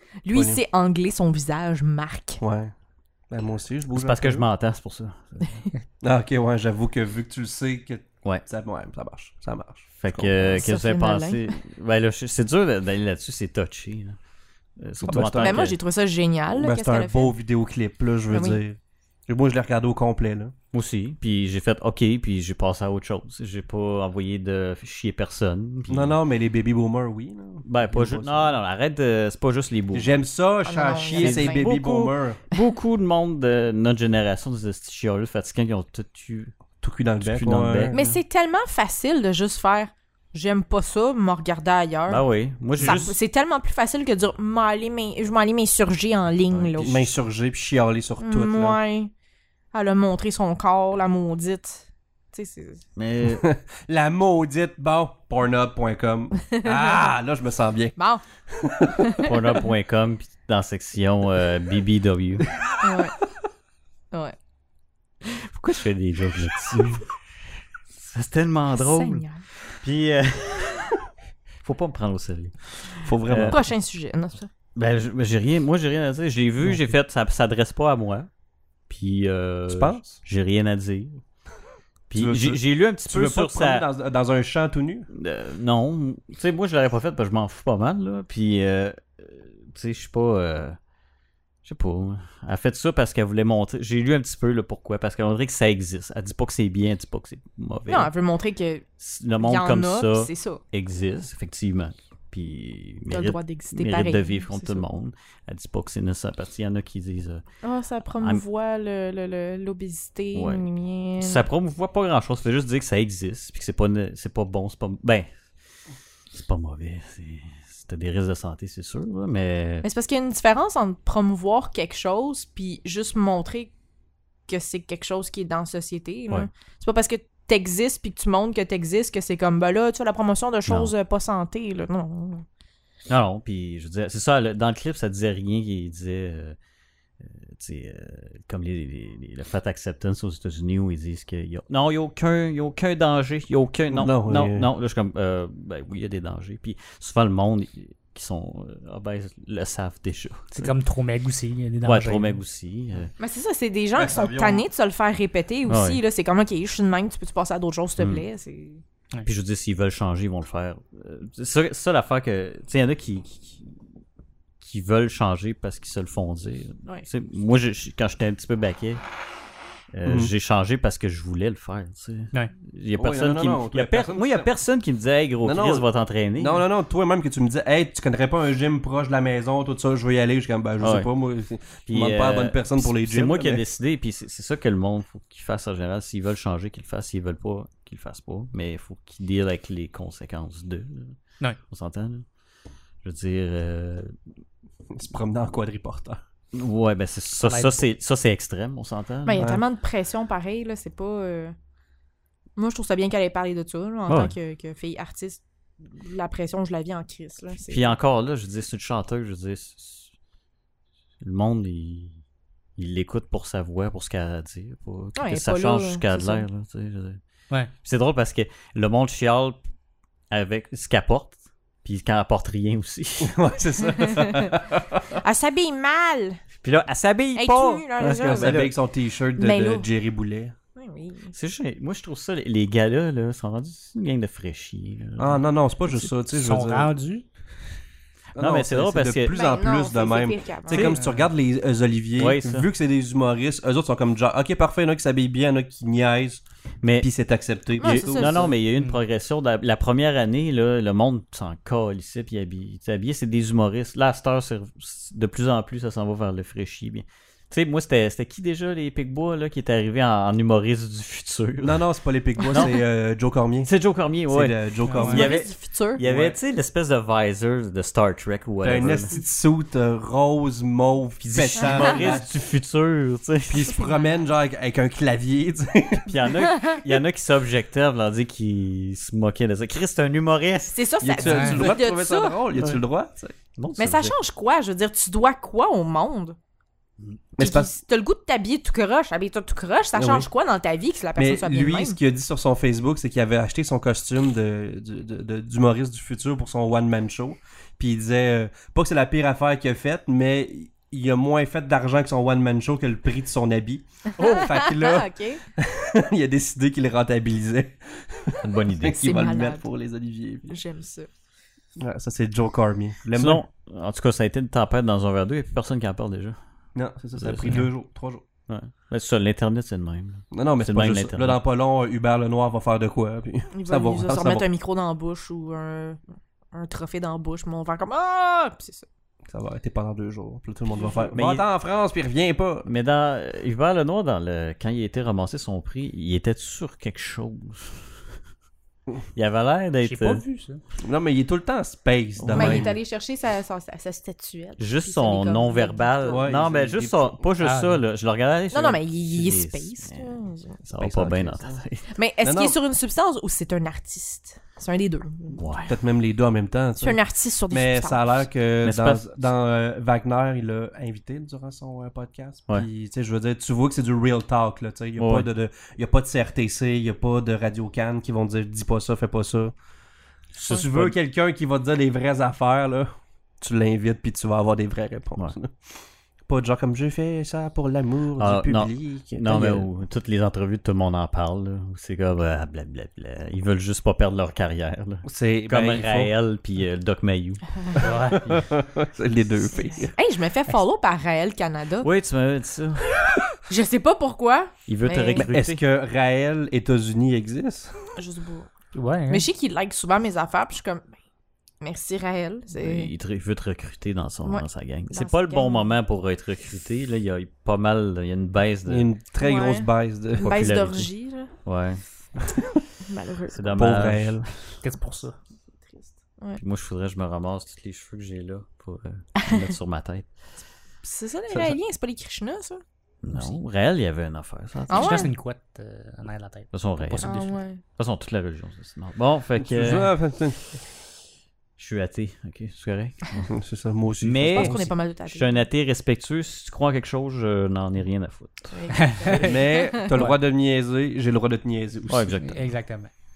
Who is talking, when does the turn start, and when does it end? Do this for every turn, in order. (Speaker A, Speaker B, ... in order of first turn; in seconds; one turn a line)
Speaker A: 0.2-2.4
Speaker B: 0.3-0.6
Speaker B: 2.4-2.7
Speaker B: 3.3-4.5
Speaker C: 3.9-5.6
Speaker B: 6.0-10.7
Speaker C: 10.0-14.2
Speaker A: 10.5-11.6
Speaker C: 14.8-15.8
Speaker B: 15.0-15.7
Speaker A: 15.4-17.4
Speaker B: 16.6-20.5
Speaker A: 18.3-18.6
Speaker C: 20.7-26.2
Speaker B: 25.9-28.6
Speaker C: 27.7-30.1
Speaker B: 29.9-32.4
Speaker A: 30.7-31.7
Speaker C: 31.2-36.6
Speaker B: 36.8-38.0
Speaker C: 37.2-38.0
Speaker A: 37.9-42.2
Speaker C: 42.1-43.1
Speaker A: 42.8-46.9
Speaker D: 42.8-43.1
Speaker C: 46.5-47.1
Speaker B: 46.8-48.8
Speaker A: 48.2-49.1
Speaker A: 49.7-52.8
Speaker C: 53.0-53.5
Speaker B: 53.2-58.0
Speaker A: 56.5-57.1
Speaker A: 58.0-58.2
Speaker B: 58.5-59.0
Speaker A: 59.0-59.4
Speaker C: 59.2-62.5
Speaker A: 62.8-63.1
Speaker A: 65.3-65.6
Speaker C: 65.6-67.0
Speaker C: 68.0-71.0
Speaker A: 68.8-69.4
Speaker C: 71.6-73.6
Speaker B: 73.0-73.6
Speaker A: 73.5-74.5
Speaker C: 74.8-78.3
Speaker C: 78.9-81.2
Speaker B: 79.7-80.2
Speaker C: 82.1-83.9
Speaker B: 82.2-85.1
Speaker C: 85.1-90.8
Speaker C: 91.6-98.1
Speaker A: 97.9-98.8
Speaker C: 99.0-107.4
Speaker A: 99.4-100.6
Speaker A: 103.1-104.9
Speaker A: 107.6-111.4
Speaker C: 110.3-110.6
Speaker C: 111.2-115.3
Speaker C: 116.3-119.8
Speaker A: 119.8-123.7
Speaker A: 124.5-132.4
Speaker C: 130.7-130.9
Speaker C: 133.1-136.6
Speaker C: 137.2-150.7
Speaker B: 143.9-144.7
Speaker D: 150.5-152.4
Speaker C: 151.8-153.1
Speaker A: 153.2-158.8
Speaker B: 153.9-154.7
Speaker C: 155.7-156.0
Speaker C: 158.0-158.2
Speaker C: 159.2-163.7
Speaker C: 164.6-169.0
Speaker C: 169.9-176.6
Speaker B: 170.1-170.3
Speaker B: 173.0-174.5
Speaker B: 175.4-175.9
Speaker B: 176.4-183.6
Speaker C: 180.8-181.1
Speaker C: 181.9-192.2
Speaker C: 193.0-194.1
Speaker B: 194.9-196.2
Speaker C: 196.5-199.6
Speaker D: 197.4-197.8
Speaker A: 199.3-201.6
Speaker B: 199.4-199.6
Speaker A: 202.6-208.0
Speaker C: 204.1-204.3
Speaker C: 207.7-210.1
Speaker C: 211.2-212.2
Speaker C: 212.8-217.2
Speaker A: 215.2-216.4
Speaker C: 217.8-219.6
Speaker C: 220.3-223.4
Speaker B: 223.2-225.0
Speaker A: 224.0-224.5
Speaker A: 225.2-226.4
Speaker C: 226.6-228.7
Speaker A: 227.3-228.6
Speaker B: 228.0-230.5
Speaker A: 229.4-229.9
Speaker A: 230.8-231.3
Speaker C: 231.3-235.4
Speaker B: 235.2-236.9
Speaker D: 236.3-237.2
Speaker B: 238.3-246.4
Speaker C: 238.4-239.4
Speaker A: 239.3-240.9
Speaker D: 240.8-241.3
Speaker C: 242.2-242.7
Speaker C: 246.8-247.1
Speaker B: 247.0-248.6
Speaker C: 247.8-261.8
Speaker A: 247.8-248.5
Speaker B: 261.6-263.7
Speaker A: 262.4-262.8
Speaker C: 262.5-262.8
Speaker C: 263.6-269.1
Speaker B: 264.3-265.4
Speaker D: 264.9-265.2
Speaker A: 265.0-266.0
Speaker B: 266.0-266.4
Speaker B: 268.6-272.3
Speaker C: 271.2-273.7
Speaker B: 273.5-276.1
Speaker A: 273.7-274.2
Speaker C: 276.1-280.8
Speaker A: 276.5-276.8
Speaker A: 280.7-282.4
Speaker B: 281.0-283.4
Speaker D: 281.3-281.6
Speaker C: 283.6-284.1
Speaker A: 283.8-286.4
Speaker B: 287.4-287.7
Speaker A: 287.4-292.0
Speaker B: 289.9-290.3
Speaker B: 291.2-310.6
Speaker C: 304.2-304.5
Speaker A: 304.2-305.4
Speaker C: 308.4-309.2
Speaker A: 308.9-309.7
Speaker A: 310.5-311.1
Speaker B: 311.8-313.4
Speaker C: 313.1-316.4
Speaker B: 316.8-318.2
Speaker C: 317.2-317.7
Speaker C: 318.5-321.4
Speaker B: 320.3-324.5
Speaker A: 323.5-326.0
Speaker A: 326.5-328.9
Speaker B: 329.3-332.7
Speaker C: 331.0-331.4
Speaker C: 332.6-338.0
Speaker C: 339.1-340.2
Speaker D: 339.8-340.6
Speaker B: 340.8-342.7
Speaker C: 342.2-342.7
Speaker A: 342.3-346.2
Speaker C: 344.6-350.1
Speaker B: 346.1-347.2
Speaker D: 347.4-347.8
Speaker A: 348.5-350.6
Speaker C: 350.6-351.9
Speaker B: 350.8-351.6
Speaker A: 351.9-355.6
Speaker B: 352.2-352.6
Speaker C: 355.4-355.8
Speaker B: 355.7-357.0
Speaker A: 356.8-358.2
Speaker B: 357.5-369.5
Speaker C: 358.6-359.2
Speaker C: 365.0-365.3
Speaker C: 370.4-370.9
Speaker B: 370.4-375.6
Speaker B: 376.3-379.7
Speaker C: 378.2-388.4
Speaker B: 385.1-386.1
Speaker D: 387.8-388.3
Speaker B: 387.8-389.9
Speaker A: 389.6-391.9
Speaker C: 391.8-392.9
Speaker A: 393.4-395.3
Speaker C: 394.7-395.6
Speaker B: 395.2-397.8
Speaker A: 398.0-398.5
Speaker D: 398.7-399.2
Speaker A: 399.1-400.9
Speaker A: 401.6-402.9
Speaker C: 402.6-408.9
Speaker A: 404.2-405.7
Speaker B: 408.7-410.4
Speaker A: 409.2-411.3
Speaker C: 410.2-412.2
Speaker A: 412.8-413.7
Speaker C: 413.3-414.6
Speaker B: 413.6-414.3
Speaker D: 414.6-415.2
Speaker A: 415.6-416.4
Speaker C: 416.4-420.1
Speaker A: 420.8-423.4
Speaker C: 423.0-425.1
Speaker A: 424.7-425.1
Speaker D: 424.7-427.3
Speaker C: 426.5-430.6
Speaker A: 427.0-427.6
Speaker B: 429.4-430.4
Speaker C: 431.6-433.4
Speaker B: 433.3-434.6
Speaker C: 434.0-438.9
Speaker A: 434.3-435.4
Speaker A: 438.5-439.9
Speaker D: 438.9-439.3
Speaker B: 439.1-442.2
Speaker C: 441.9-442.4
Speaker D: 442.2-442.9